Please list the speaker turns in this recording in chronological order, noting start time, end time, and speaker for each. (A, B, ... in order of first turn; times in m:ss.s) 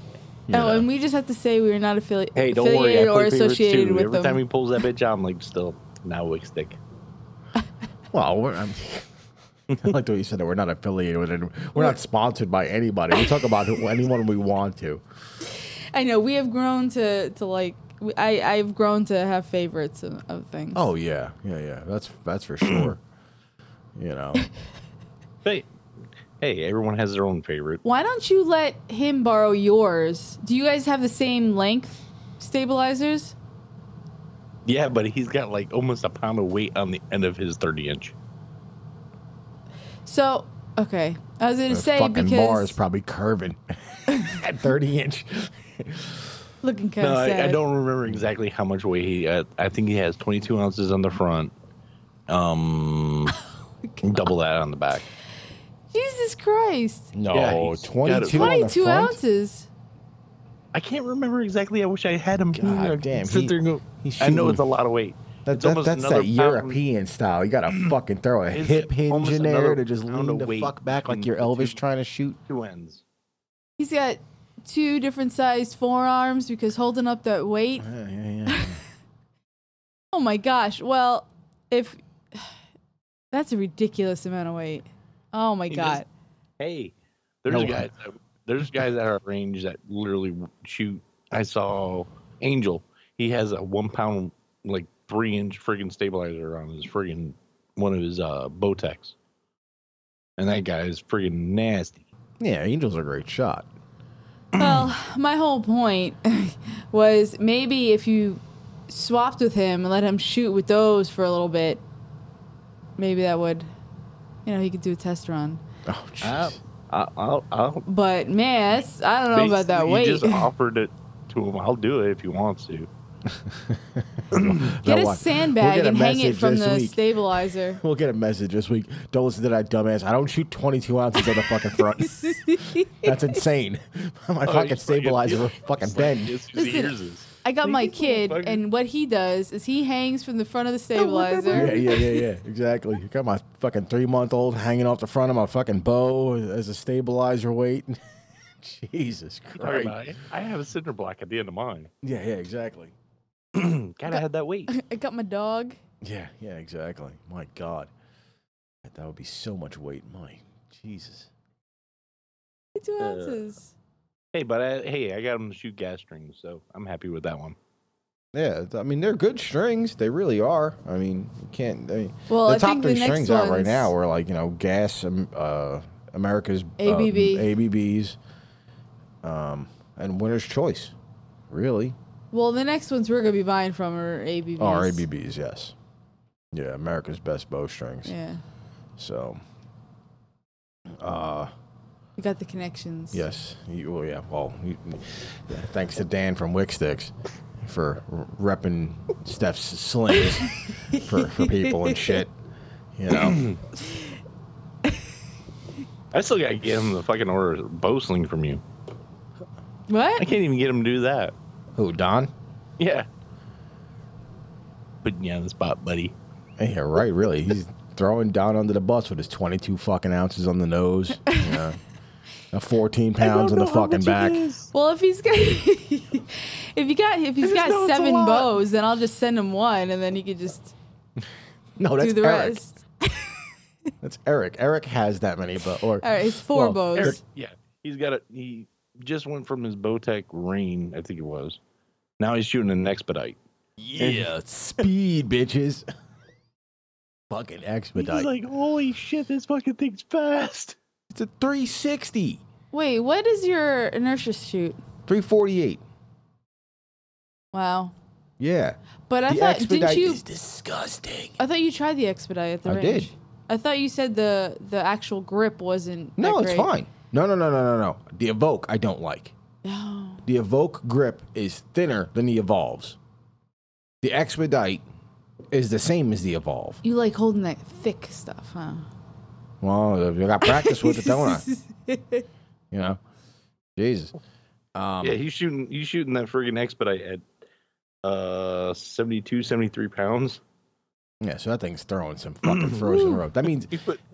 0:00.5-0:00.9 A
0:00.5-0:04.4 B
0:02.4-0:06.8 C
0:08.1-0:09.1 A
0:09.7-0:15.0 A
0:15.5-0:20.9 B
0:20.7-0:23.0 A
0:24.0-0:24.5 A
0:26.4-0:27.8 C
0:27.8-0:33.4 B
0:34.6-0:38.1 C
0:40.0-0:42.8 B
0:41.7-0:46.3 A
0:46.6-0:47.6 B
0:47.0-0:51.5 C
0:52.3-0:53.4 C
0:54.0-0:55.0 C
0:55.9-0:57.1 B
0:57.1-0:59.2 A
0:57.3-0:58.5 C
0:58.2-0:59.7 B
1:00.7-1:06.8 C
1:02.5-1:04.6 A
1:05.4-1:12.4 A
1:07.7-1:07.9 C
1:08.5-1:11.8 C
1:12.5-1:13.0 C
1:13.8-1:17.9 B
1:17.8-1:18.8 A
1:18.5-1:18.8 B
1:20.1-1:22.5 B
1:23.3-1:26.1 B
1:25.7-1:26.0 C
1:26.6-1:26.9 C
1:27.4-1:39.1 C
1:27.5-1:27.9 A
1:40.4-1:42.1 C
1:42.4-1:43.7 A
1:44.6-1:51.8 B
1:44.6-1:44.9 C
1:53.0-1:53.7 B
1:54.4-1:55.6 B
1:55.8-1:56.6 A
1:56.2-1:57.8 C
1:57.8-2:00.5 B
1:59.3-2:02.9 C
2:03.3-2:07.0 A
2:04.3-2:04.7 C
2:04.8-2:07.8 B
2:07.7-2:16.4 A
2:12.0-2:13.1 B
2:14.4-2:18.6 C
2:16.5-2:22.0 B
2:21.0-2:22.0 C
2:21.5-2:28.0 A
2:28.6-2:30.0 A
2:29.6-2:31.9 C
2:32.0-2:32.9 A
2:33.5-2:34.7 C
2:34.7-2:35.8 B
2:36.0-2:37.9 A
2:38.8-2:41.3 A
2:42.7-2:43.7 B
2:43.0-2:43.4 C
2:44.3-2:47.6 C
2:48.3-2:58.2 A
2:52.3-2:53.9 B
2:56.8-2:57.5 B
2:59.2-3:00.9 A
3:01.5-3:02.0 A
3:02.3-3:05.0 B
3:04.6-3:05.7 A
3:06.5-3:08.1 A
3:08.0-3:08.4 B
3:09.0-3:09.4 A
3:10.9-3:11.5 A
3:12.2-3:13.2 B
3:13.1-3:22.3 A
3:20.8-3:22.2 B
3:23.0-3:23.4 A
3:23.1-3:23.6 C
3:26.1-3:28.6 C
3:29.9-3:30.2 B
3:30.2-3:31.3 C
3:31.8-3:32.3 A
3:32.8-3:33.1 C
3:35.0-3:36.1 C
3:36.6-3:41.8 A
3:41.3-3:41.6 B
3:42.5-3:44.4 A
3:43.2-3:44.7 C
3:44.7-3:50.7 B
3:47.4-3:48.5 C
3:51.8-3:52.6 A
3:52.0-3:53.4 B
3:54.0-3:57.2 A
3:56.0-3:57.2 B
3:56.9-4:01.6 C
4:02.2-4:03.4 C
4:03.8-4:05.8 A
4:04.0-4:04.3 C
4:07.3-4:08.3 A
4:08.0-4:10.8 C
4:11.1-4:12.4 A
4:12.7-4:14.8 B
4:15.1-4:15.8 A
4:17.5-4:17.9 B
4:18.4-4:21.4 A
4:19.1-4:20.2 B
4:21.4-4:26.7 B
4:22.6-4:23.1 A
4:26.2-4:29.3 A
4:29.6-4:30.2 B
4:30.2-4:33.0 A
4:34.0-4:34.8 A
4:35.5-4:36.8 A
4:36.8-4:38.9 B
4:39.6-4:41.4 A
4:40.4-4:42.2 B
4:42.7-4:43.0 A
4:43.8-4:44.1 A
4:44.8-4:45.2 A
4:45.0-4:47.2 C
4:48.0-4:50.4 C
4:51.2-4:53.7 A
4:52.4-4:54.0 C